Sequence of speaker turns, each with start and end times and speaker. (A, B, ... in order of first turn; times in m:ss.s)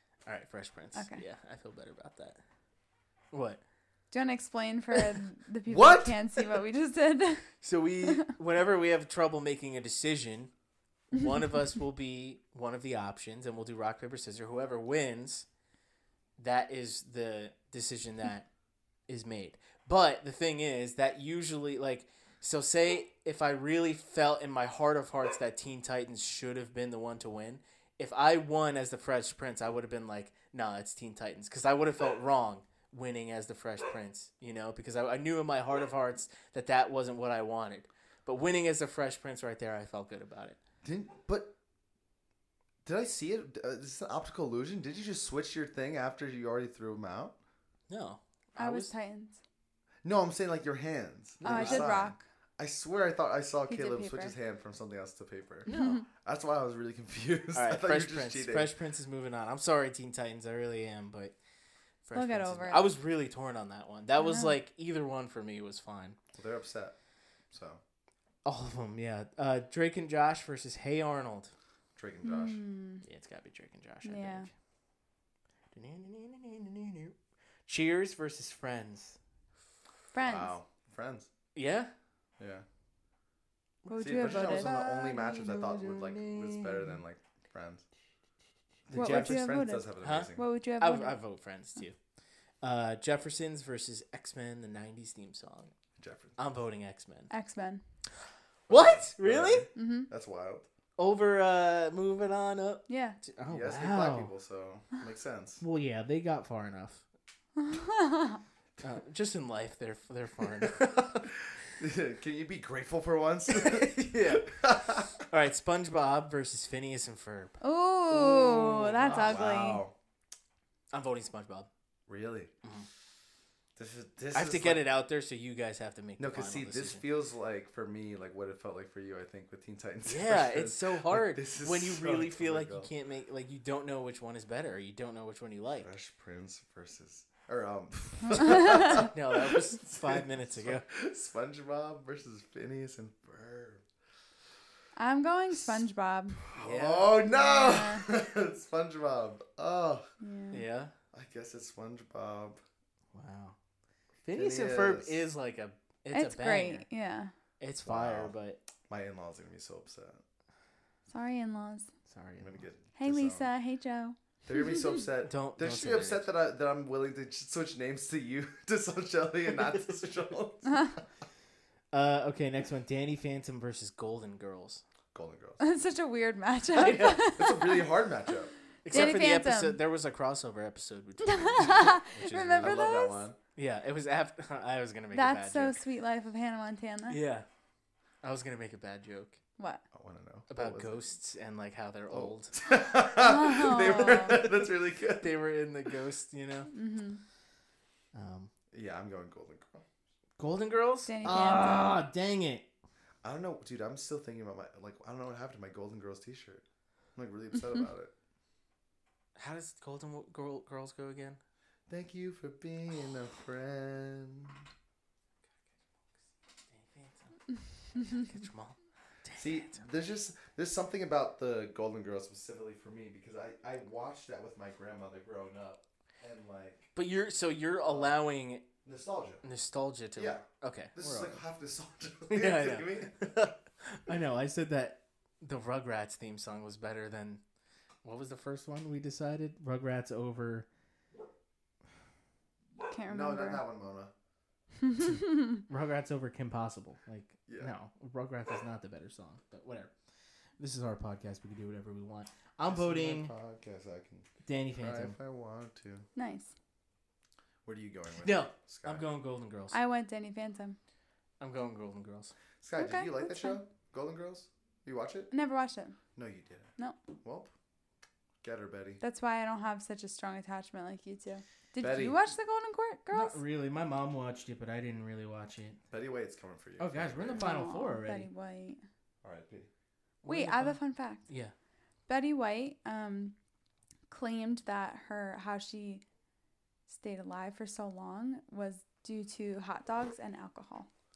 0:00.3-0:02.4 A
0:00.9-0:01.2 B
0:03.3-0:03.6 A
0:04.1-0:08.3 B
0:05.7-0:06.2 C
0:07.6-0:10.5 A
0:11.1-0:15.5 A
0:16.4-0:18.5 A
0:19.1-0:40.6 A
0:40.8-0:41.5 C
0:42.8-0:47.4 C
0:47.9-0:48.9 A
0:48.6-0:49.4 B
0:50.0-0:58.7 C
0:51.4-0:52.0 A
0:51.4-0:52.2 B
0:53.7-0:54.4 B
0:55.7-0:56.0 A
0:55.7-0:56.1 B
0:57.5-1:01.4 A
1:02.0-1:06.2 A
1:02.1-1:02.9 B
1:04.2-1:04.5 B
1:06.4-1:07.0 C
1:07.5-1:07.8 C
1:08.4-1:11.5 A
1:12.0-1:12.6 C
1:12.2-1:13.0 B
1:13.0-1:14.5 A
1:14.0-1:14.5 B
1:15.7-1:17.2 A
1:17.7-1:19.2 A
1:20.1-1:20.6 B
1:20.2-1:21.3 C
1:21.6-1:21.9 A
1:22.4-1:22.6 C
1:23.8-1:27.0 A
1:23.9-1:25.1 B
1:24.0-1:27.8 C
1:28.9-1:30.4 C
1:28.9-1:29.4 A
1:28.9-1:31.2 B
1:30.0-1:32.0 A
1:32.6-1:35.7 A
1:36.0-1:36.4 C
1:36.4-1:37.3 A
1:37.3-1:37.8 B
1:38.7-1:40.7 C
1:38.7-1:39.7 A
1:39.8-1:40.1 B
1:41.0-1:44.3 A
1:42.9-1:43.2 B
1:43.5-1:45.6 C
1:45.6-1:47.0 A
1:47.6-1:48.4 B
1:48.8-1:51.2 A
1:51.2-1:55.2 C
1:53.5-1:54.5 A
1:55.2-1:57.6 A
1:57.6-1:59.8 B
1:58.1-1:59.9 C
1:59.0-1:59.3 A
2:00.9-2:01.7 A
2:02.1-2:02.5 C
2:02.6-2:02.9 A
2:03.8-2:04.8 C
2:04.3-2:07.0 A
2:06.2-2:12.9 C
2:10.0-2:15.9 A
2:15.8-2:23.8 C
2:18.5-2:18.9 B
2:19.0-2:20.8 A
2:25.0-2:26.4 B
2:26.5-2:30.1 C
2:26.6-2:27.2 A
2:27.2-2:28.1 B
2:30.2-2:30.6 B
2:30.5-2:30.9 A
2:31.1-2:32.6 C
2:33.1-2:33.6 A
2:34.2-2:36.9 A
2:34.3-2:35.2 C
2:36.1-2:37.3 B
2:37.6-2:38.6 A
2:37.8-2:38.3 C
2:38.9-2:40.2 C
2:41.1-2:41.9 B
2:42.1-2:42.6 A
2:42.4-2:43.5 C
2:43.0-2:44.2 B
2:44.5-2:51.0 C
2:45.2-2:46.3 A
2:51.9-2:54.8 A
2:55.1-2:55.6 C
2:55.6-2:58.0 B
2:56.7-2:57.3 A
2:56.8-2:59.2 C
2:58.8-3:02.9 A
2:58.9-2:59.8 B
3:01.2-3:03.3 B
3:02.6-3:03.4 C
3:03.6-3:05.8 A
3:05.1-3:07.2 B
3:07.1-3:07.5 A
3:08.2-3:09.4 A
3:09.6-3:09.8 B
3:09.9-3:11.0 C
3:10.5-3:12.6 A
3:12.1-3:15.3 C
3:13.1-3:14.4 B
3:15.1-3:16.7 A
3:16.7-3:17.2 B
3:18.1-3:18.5 A
3:18.7-3:19.8 C
3:20.4-3:22.7 A
3:21.1-3:21.9 B
3:21.2-3:21.6 C
3:23.2-3:26.6 C
3:27.2-3:28.1 C
3:29.4-3:31.4 A
3:31.9-3:34.6 C
3:36.7-3:39.8 A
3:39.4-3:46.9 C
3:47.0-3:48.7 A
3:47.8-3:48.2 C
3:48.8-3:49.4 C
3:49.4-3:51.4 A
3:50.2-3:53.4 C
3:52.3-3:57.4 A
3:58.0-4:00.7 A
4:02.9-4:03.6 B
4:03.1-4:04.1 C
4:04.8-4:05.6 B
4:05.7-4:09.9 A
4:07.5-4:07.7 C
4:10.6-4:13.3 A
4:12.7-4:16.1 C
4:14.4-4:15.2 A
4:16.2-4:16.5 B
4:17.6-4:19.0 C
4:18.2-4:19.8 A
4:19.7-4:20.8 B
4:21.4-4:22.3 A
4:22.6-4:25.3 C
4:22.8-4:23.6 B
4:25.3-4:26.0 B
4:26.2-4:26.7 C
4:27.2-4:27.5 C
4:28.4-4:29.0 C
4:29.0-4:33.4 B
4:31.8-4:32.2 C
4:33.1-4:35.8 A
4:35.9-4:37.5 C
4:36.8-4:38.3 A
4:37.4-4:38.8 B
4:39.2-4:39.7 C
4:40.2-4:41.5 A
4:40.3-4:41.2 B
4:42.1-4:43.4 B
4:44.1-4:46.0 B
4:46.9-4:50.9 B